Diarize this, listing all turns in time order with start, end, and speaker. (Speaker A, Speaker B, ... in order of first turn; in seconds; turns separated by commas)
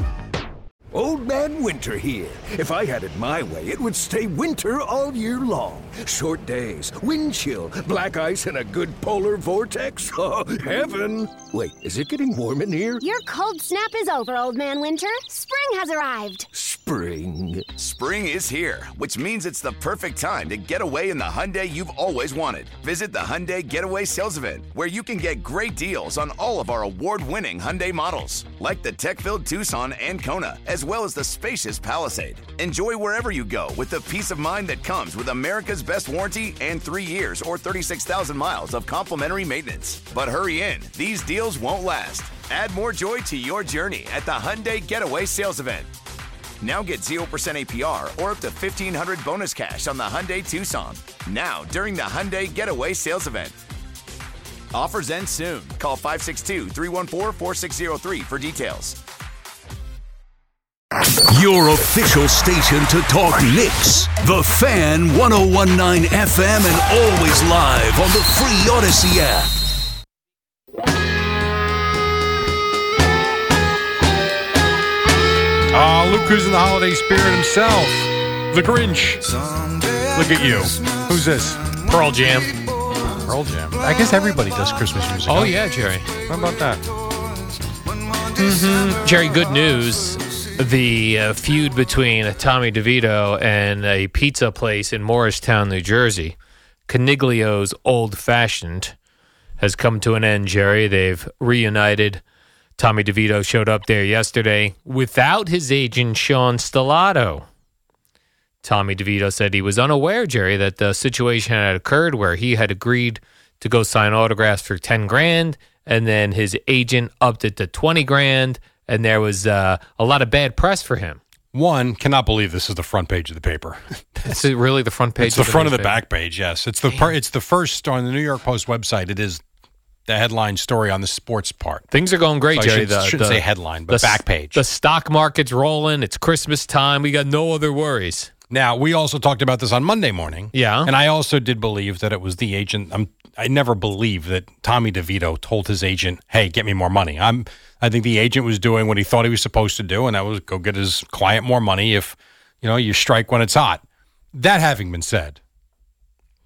Speaker A: 0.9-13.0, Speaker B: 13.0-16.5, Speaker A: 16.5-17.7, Speaker C: 17.8-45.9, Speaker C: 46.6-53.6, Speaker C: 54.7-59.0, Speaker D: 61.4-69.5, Speaker E: 75.7-79.3, Speaker E: 80.1-81.8, Speaker F: 81.9-82.5, Speaker E: 83.0-85.5, Speaker F: 85.3-86.1, Speaker E: 86.3-86.8, Speaker F: 88.4-96.3, Speaker F: 96.9-98.9, Speaker F: 99.6-102.2, Speaker F: 102.8-107.4, Speaker F: 108.6-121.2, Speaker E: 121.5-124.4, Speaker F: 124.2-126.0, Speaker E: 125.2-129.4, Speaker E: 130.1-131.8, Speaker F: 131.9-138.3, Speaker E: 132.5-134.6, Speaker E: 138.5-153.8, Speaker F: 140.5-140.9, Speaker E: 154.3-155.4